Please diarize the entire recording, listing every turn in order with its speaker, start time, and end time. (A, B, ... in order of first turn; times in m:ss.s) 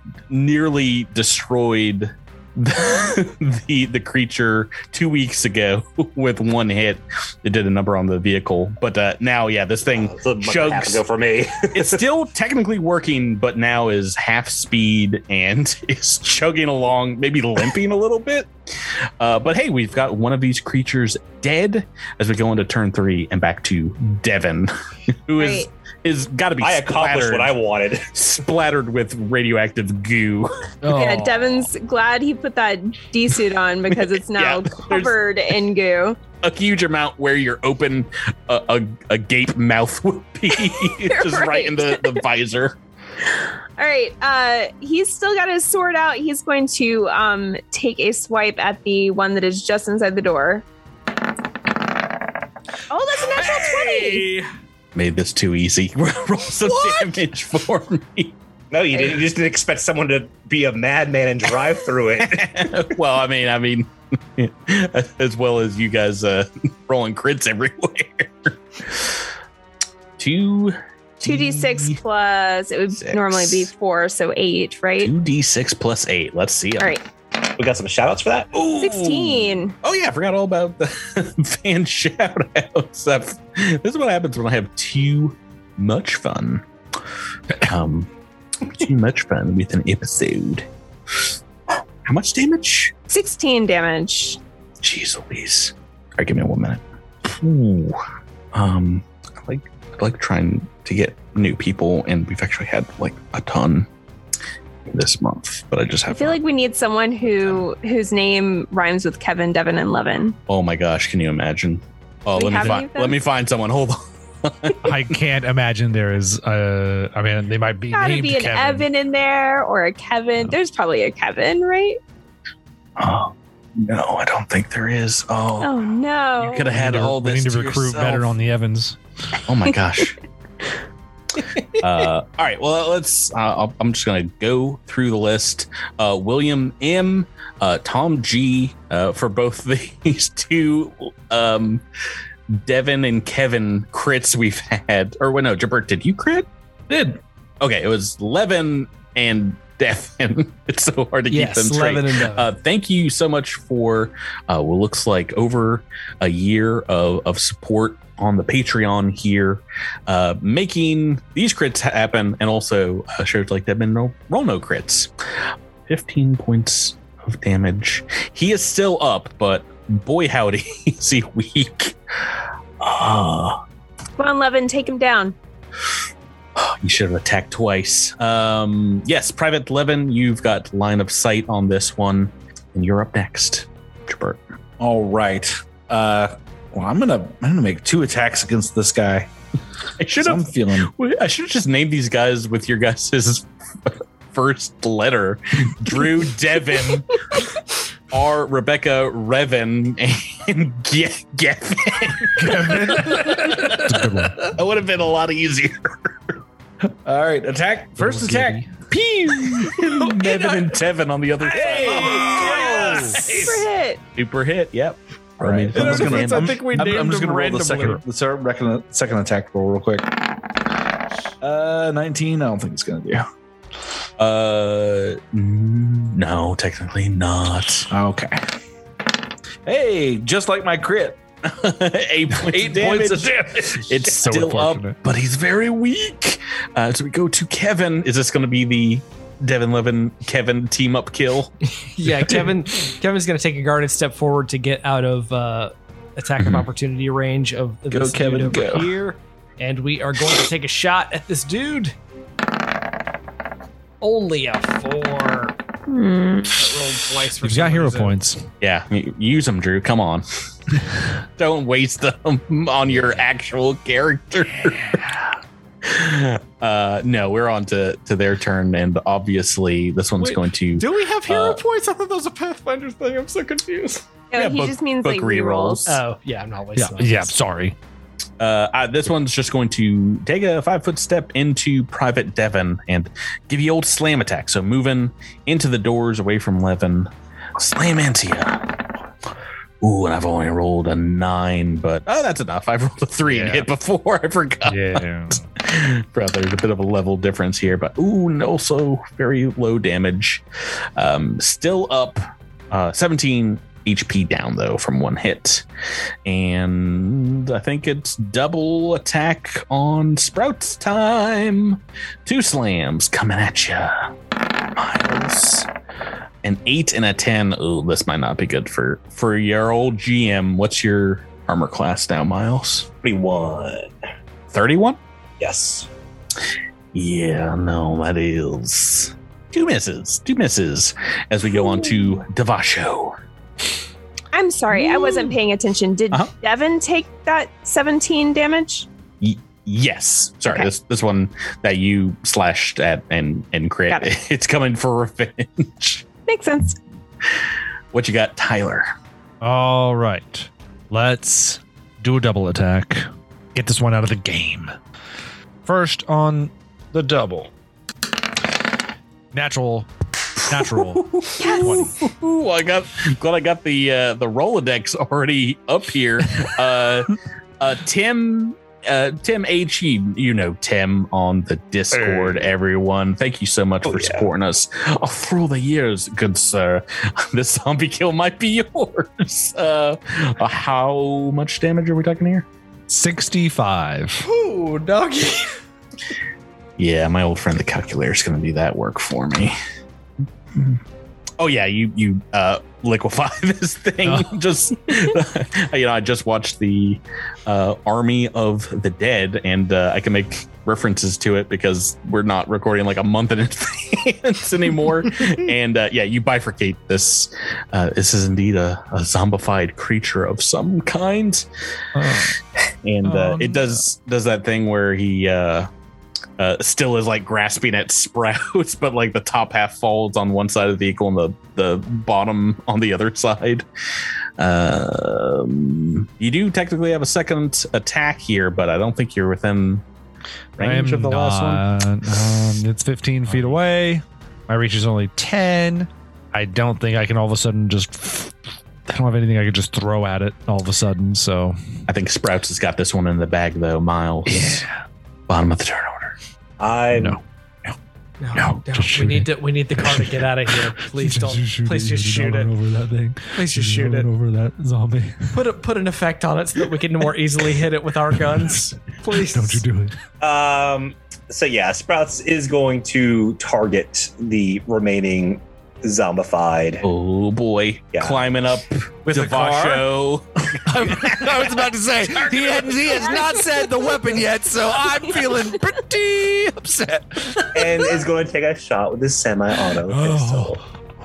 0:00.3-0:11.0 A
0:09.9-0:12.0 B
0:11.7-0:24.7 A
0:25.3-0:27.6 A
0:25.4-0:25.7 C
0:26.6-0:28.1 B
0:28.1-0:30.7 A
0:30.8-0:31.6 D
0:30.9-0:36.2 C
0:33.9-0:35.2 A
0:36.4-0:42.8 A
0:40.8-0:42.2 C
0:43.8-0:50.6 C
0:52.9-0:54.3 C
0:53.4-0:54.4 E
0:55.0-0:58.4 A
0:58.7-1:02.6 B
1:02.2-1:09.3 A
1:10.2-1:12.0 A
1:11.2-1:15.1 C
1:12.9-1:13.7 A
1:15.0-1:16.9 A
1:16.8-1:17.0 C
1:17.6-1:18.5 B
1:18.5-1:26.6 A
1:18.8-1:19.7 C
1:27.6-1:28.1 A
1:28.7-1:31.2 A
1:32.0-1:32.9 A
1:33.1-1:34.4 C
1:34.8-1:38.0 A
1:38.5-1:43.9 A
1:44.9-1:46.4 A
1:46.1-1:50.4 C
1:50.5-1:55.2 A
1:52.4-1:53.2 C
1:54.8-1:58.9 D
1:57.9-2:02.0 C
2:03.0-2:08.3 A
2:05.6-2:06.7 C
2:06.7-2:09.0 D
2:09.4-2:10.2 A
2:11.8-2:21.8 A
2:22.5-2:26.5 A
2:26.9-2:27.2 F
2:27.6-2:45.1 A
2:31.3-2:32.5 E
2:45.9-2:53.6 A
2:54.2-2:55.4 C
2:56.6-3:04.4 A
3:04.8-3:09.3 F
3:10.0-3:17.1 A
3:10.2-3:10.9 F
3:18.1-3:26.4 A
3:22.4-3:24.5 D
3:27.0-3:28.6 F
3:28.0-3:28.7 D
3:28.9-3:36.6 A
3:30.1-3:30.7 E
3:31.5-3:33.4 F
3:31.6-3:33.2 E
3:33.0-3:34.0 C
3:35.4-3:40.1 F
3:35.8-3:38.0 E
3:41.4-3:43.2 F
3:44.2-3:47.9 A
3:47.9-3:48.4 F
3:49.7-3:51.2 F
3:51.4-4:01.5 A
3:52.5-3:54.0 F
3:54.2-3:55.0 D
4:01.8-4:11.9 E
4:06.4-4:06.7 A
4:07.9-4:08.9 F
4:14.0-4:15.6 E
4:15.9-4:16.7 C
4:16.5-4:18.2 E
4:17.4-4:18.4 D
4:18.6-4:20.2 A
4:21.4-4:31.6 A
4:30.2-4:34.1 E
4:34.3-4:35.8 C
4:34.3-4:36.0 A
4:35.9-4:37.4 E
4:36.8-4:37.8 D
4:38.4-4:48.7 A
4:49.8-5:00.4 A
4:53.3-4:53.7 D
4:54.7-4:55.5 D
5:01.0-5:05.7 A
5:06.2-5:14.1 A
5:14.8-5:15.7 A
5:16.4-5:23.0 A
5:23.0-5:23.9 B
5:24.5-5:25.0 A
5:25.4-5:25.9 B
5:26.9-5:33.2 A
5:34.3-5:38.9 C
5:39.2-5:46.0 A
5:46.3-5:46.8 C
5:47.3-5:48.9 A
5:49.4-5:54.8 D
5:55.6-5:57.5 D
5:59.3-5:59.9 D
6:00.5-6:02.0 D
6:00.5-6:22.5 A
6:01.4-6:01.8 C
6:13.8-6:14.3 B
6:22.9-6:24.2 D
6:24.2-6:25.6 E
6:26.8-6:29.6 A
6:30.5-6:30.8 A
6:31.4-6:51.5 A
6:34.0-6:34.4 D
6:52.0-6:52.4 D
6:52.8-6:55.7 A
6:53.0-6:53.8 D
6:56.4-7:03.7 A
7:04.4-7:09.8 A
7:10.6-7:11.6 A
7:10.6-7:18.4 D
7:18.9-7:21.6 D
7:21.9-7:24.7 A
7:24.3-7:24.8 D
7:25.3-7:26.2 A
7:26.6-7:27.2 B
7:27.0-7:27.7 D
7:28.2-7:32.5 E
7:28.4-7:35.4 D
7:33.4-7:34.1 E
7:35.3-7:39.6 E
7:38.3-7:40.0 D
7:40.2-7:46.8 B
7:46.8-7:52.9 A
7:47.9-7:48.2 B
7:49.1-7:49.8 F
7:50.7-7:57.9 D
7:57.5-8:00.6 B
7:59.9-8:00.6 D